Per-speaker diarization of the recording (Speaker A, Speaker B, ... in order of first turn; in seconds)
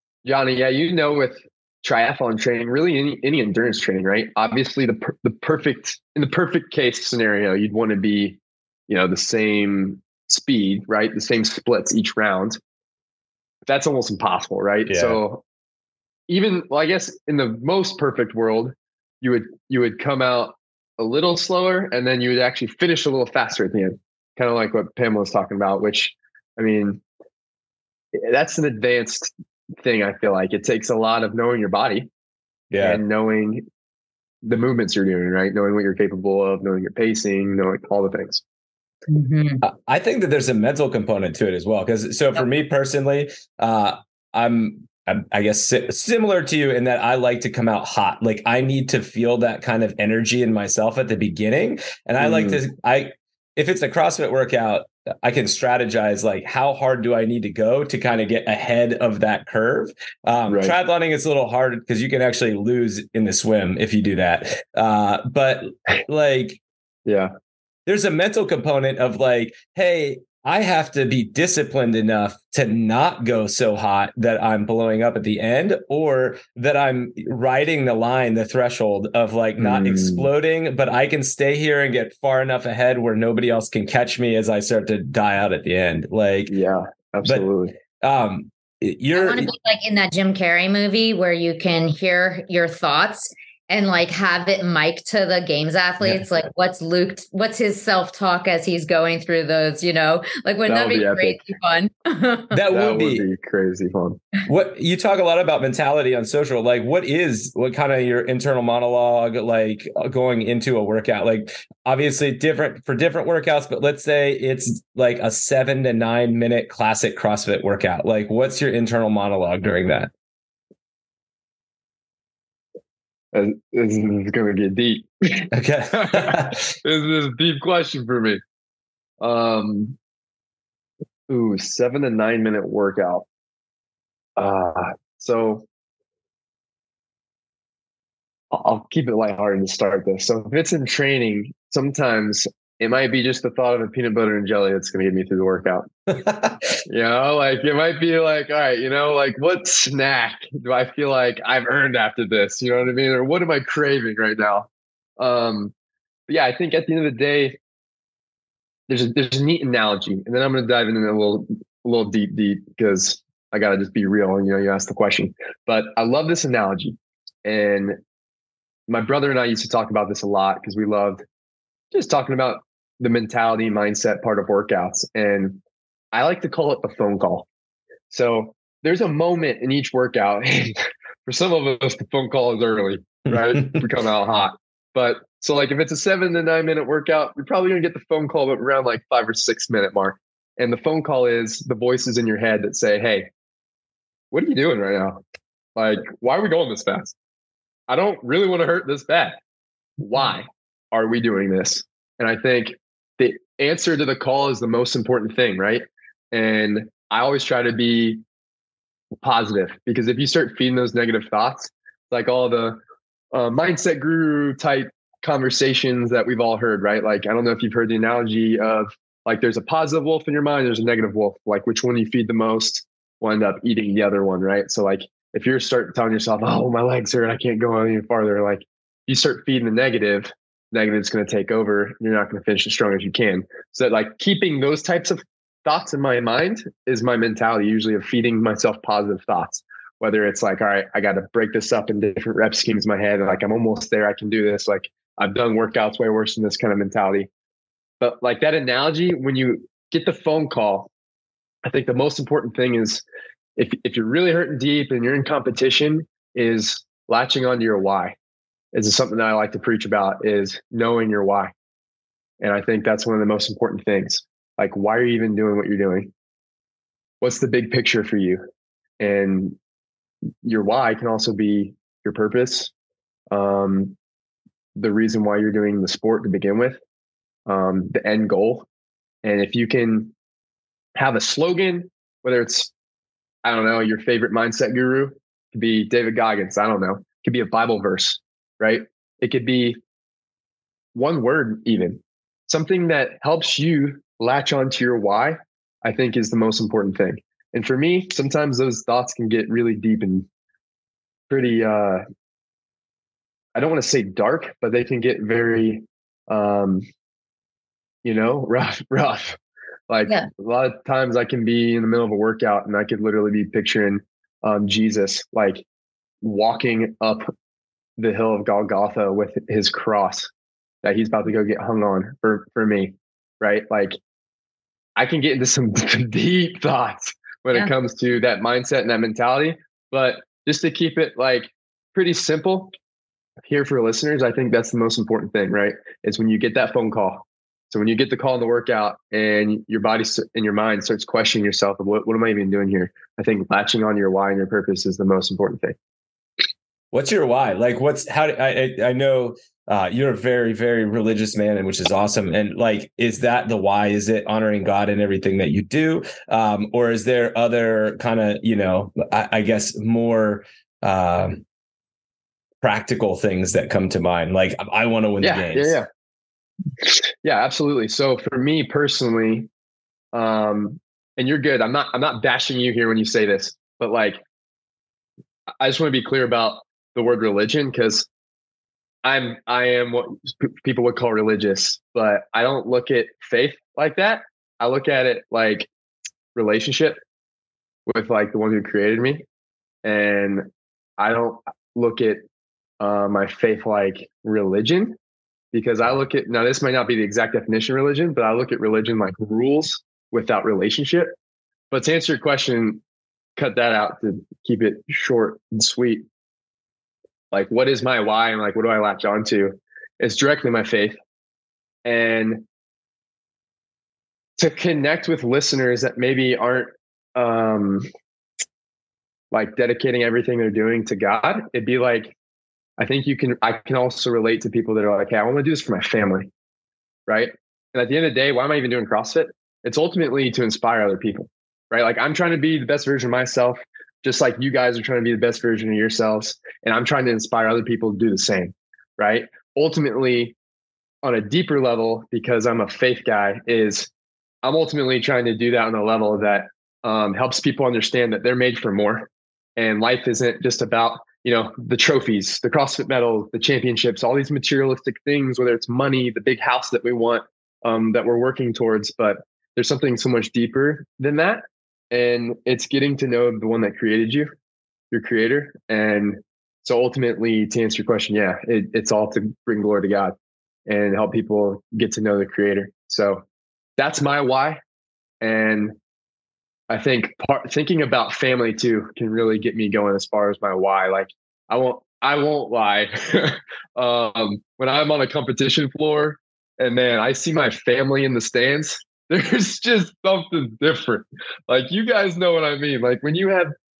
Speaker A: 0.2-12.6, 13.7-15.4, 16.3-27.0, 28.1-32.1, 32.8-33.6, 34.4-38.4, 52.2-52.6, 60.5-60.7, 67.0-67.3, 79.6-80.3, 86.5-87.7, 100.7-101.4, 102.7-104.2, 123.3-128.4, 129.2-129.9, 131.3-133.2, 134.4-135.6, 138.5-145.9, 146.8-155.7, 156.3-157.6, 158.9-168.0, 168.9-171.2, 171.9-175.6, 176.1-177.5, 178.1-193.3, 194.3-195.2, 195.8-197.2, 197.9-199.4, 200.0-208.2, 209.2-212.8, 213.3-247.3, 248.0-250.9, 251.7-253.0, 253.6-258.1, 258.7-261.5, 262.4-266.1, 267.2-268.4, 269.0-269.6, 270.4-272.7, 273.3-273.9, 274.8-276.8, 277.5-278.6, 279.2-280.1, 280.9-282.7, 283.4-289.8, 290.9-300.3, 301.3-302.0, 303.6-306.9, 308.0-309.4, 309.9-315.6, 316.2-317.3, 318.0-320.3, 320.8-324.0, 325.0-332.7, 333.4-345.8, 365.2-365.9, 366.8-369.5, 370.1-374.2, 375.6-378.1, 379.0-385.7, 386.3-387.0, 387.9-389.2, 389.8-390.5, 391.0-392.2, 392.8-394.9, 395.5-401.1, 401.7-402.8, 403.4-406.1, 407.3-411.0, 411.8-412.4, 414.4-417.9, 419.3-422.1, 422.8-426.3, 427.1-440.3, 441.0-443.9, 444.4-464.3, 464.9-470.1, 470.7-473.2, 473.8-474.6, 475.2-475.7, 476.7-493.5
Speaker B: 14.8-15.2, 32.7-33.0, 39.6-66.6, 67.9-86.5, 87.2-89.5, 102.5-103.2, 104.5-120.1, 125.5-126.7, 146.1-146.8, 183.3-183.8, 346.9-361.4, 362.6-365.8
Speaker C: 39.1-39.6, 89.1-102.6